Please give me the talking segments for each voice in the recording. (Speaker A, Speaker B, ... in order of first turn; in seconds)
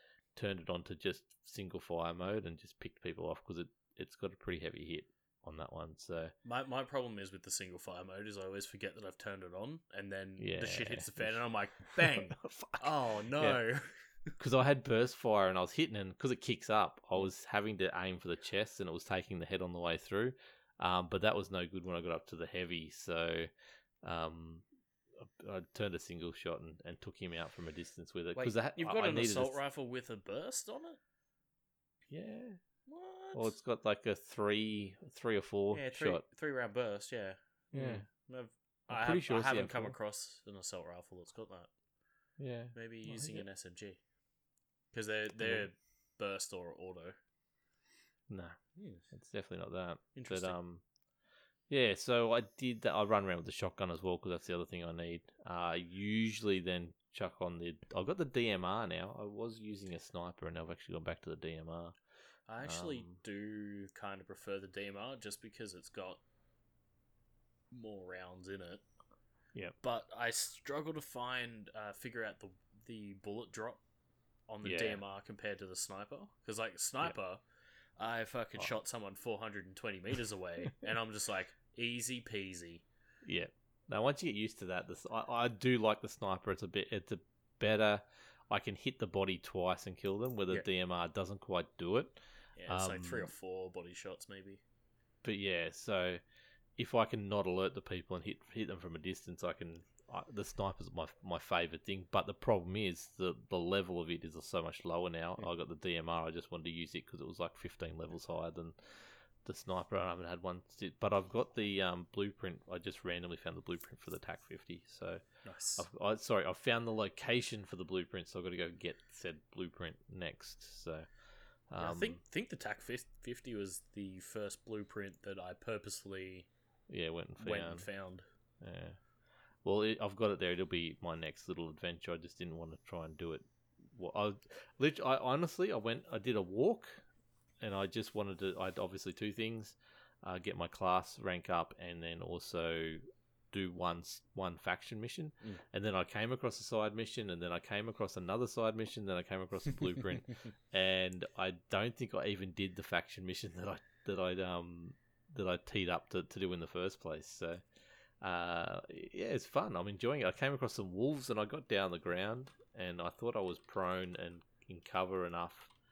Speaker A: 0.3-6.3, 10.4-11.4, 12.1-13.6, 14.4-23.5, 24.0-24.6, 25.2-29.6, 32.1-32.6, 33.3-36.2, 37.7-38.1, 38.9-39.9, 42.4-43.4, 48.3-48.6, 49.1-50.8, 51.7-61.9, 62.6-63.2, 74.6-75.0, 83.2-93.3, 95.2-96.2, 96.8-115.2, 115.8-121.1, 121.7-122.2, 126.9-127.9, 128.6-129.0, 129.6-137.0, 137.6-143.0, 143.5-157.6, 158.2-165.7
Speaker B: 6.4-13.9, 28.4-31.0, 32.9-33.5, 35.7-41.7, 42.7-44.0, 44.9-47.1, 48.8-49.0, 50.1-50.6, 62.5-66.2, 67.7-68.8, 69.8-73.8, 74.5-77.4, 78.0-82.8, 92.6-94.6, 115.4-115.8, 121.8-126.5, 127.4-128.2